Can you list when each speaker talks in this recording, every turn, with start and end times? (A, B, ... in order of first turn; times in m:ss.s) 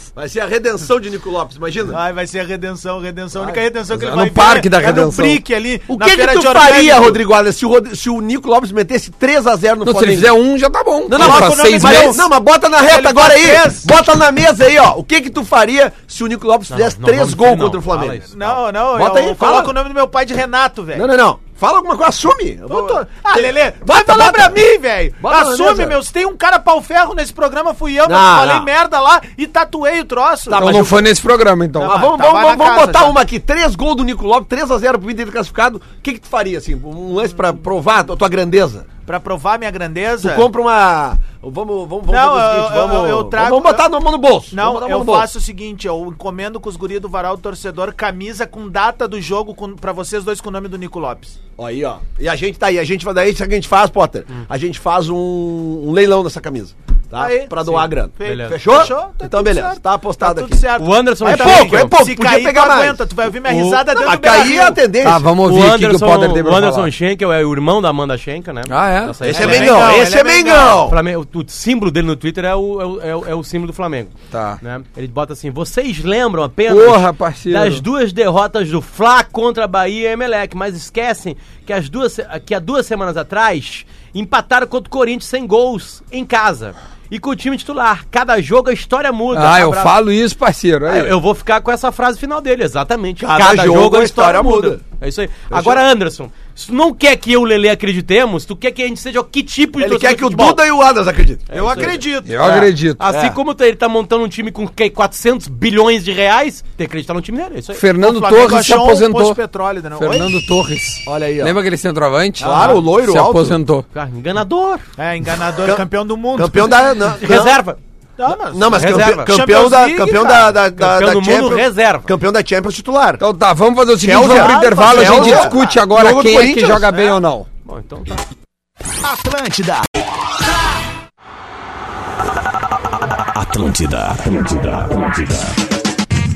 0:00.1-0:02.0 A
0:01.9-0:07.2 B
0:03.9-0:05.4 C
0:05.9-0:10.3 A
0:09.8-0:12.2 C
0:11.1-0:18.3 A
0:11.1-0:12.3 B
0:12.8-0:13.9 B
0:16.7-0:18.6 D
0:18.3-0:21.1 B
0:18.9-0:19.7 A
0:20.9-0:24.6 A
0:22.7-0:30.9 B
0:25.2-0:26.0 A
0:28.0-0:28.7 A
0:30.5-0:31.1 A
0:30.5-0:32.0 C
0:31.8-0:33.2 B
0:31.8-0:38.9 A
0:39.0-0:40.5 B
0:40.2-0:45.3 A
0:42.1-0:43.9 B
0:44.5-0:51.4 B
0:51.6-1:00.6 A
0:57.2-1:04.8 B
0:57.6-0:58.6 D
1:00.8-1:02.0 D
1:01.2-1:03.0 A
1:03.4-1:03.8 D
1:03.9-1:05.3 A
1:05.0-1:06.9 C
1:05.4-1:10.0 D
1:08.7-1:09.2 C
1:09.2-1:11.0 A
1:09.2-1:10.9 B
1:10.8-1:30.0 D
1:14.3-1:14.6 C
1:16.7-1:17.8 C
1:29.3-1:31.2 C
1:30.9-1:40.6 D
1:33.2-1:34.8 A
1:35.5-1:35.8 A
1:39.8-1:42.0 A
1:41.5-1:47.8 D
1:41.5-1:42.7 B
1:42.2-1:43.0 C
1:43.1-1:43.4 A
1:47.7-1:49.4 C
1:48.0-1:50.4 B
1:50.0-1:53.9 C
1:51.0-1:51.6 A
1:52.4-1:52.8 B
1:52.4-1:53.6 A
1:53.9-1:54.8 D
1:55.0-1:56.9 B
1:56.4-1:57.6 A
1:57.1-1:57.8 D
1:58.2-2:00.6 B
1:58.5-2:03.2 A
1:58.7-1:59.4 D
2:00.7-2:02.1 D
2:03.2-2:07.5 C
2:04.0-2:06.9 A
2:04.1-2:05.7 B
2:07.6-2:08.2 D
2:09.0-2:09.9 B
2:13.3-2:15.6 E